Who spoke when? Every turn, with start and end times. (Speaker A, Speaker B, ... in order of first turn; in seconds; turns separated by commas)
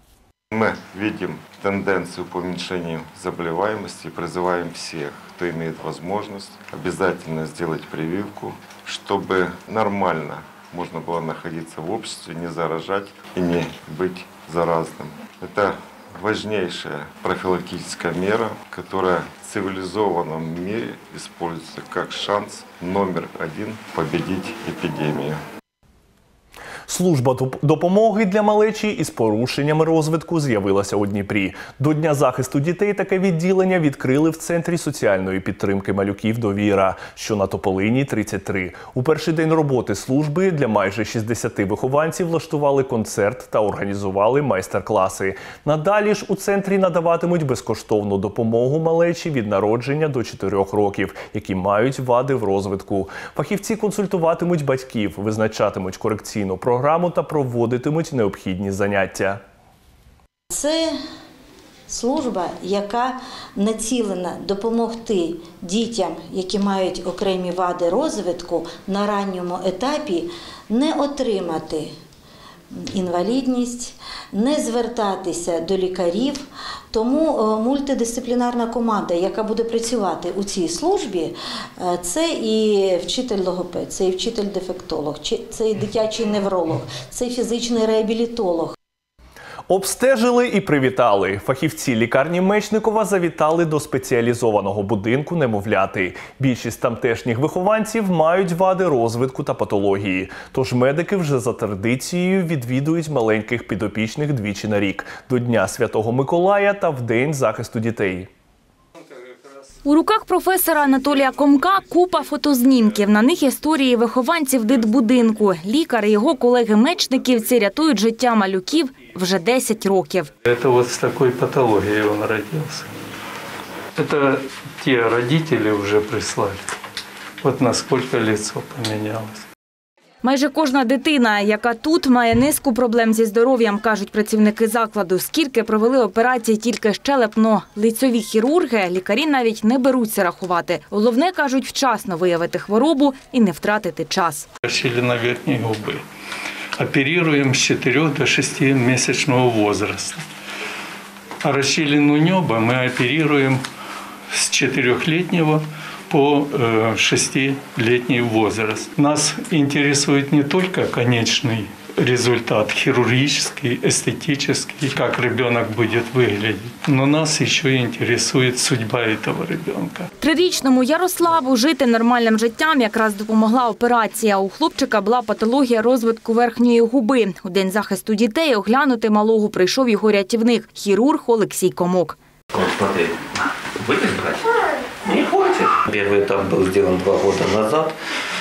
Speaker A: 0.5-25.4, Speaker B: 26.9-59.4, Speaker C: 60.5-61.0, Speaker C: 61.9-71.9, Speaker C: 72.7-88.8, Speaker B: 89.7-108.3, Speaker D: 109.8-120.3, Speaker E: 120.5-122.9, Speaker E: 124.0-126.7, Speaker E: 127.4-129.4, Speaker D: 130.2-144.5, Speaker E: 144.6-146.0, Speaker E: 146.8-150.2, Speaker E: 151.4-153.6, Speaker E: 154.3-170.1, Speaker D: 170.2-182.2, Speaker F: 182.5-183.1, Speaker F: 183.8-184.4, Speaker F: 185.1-187.9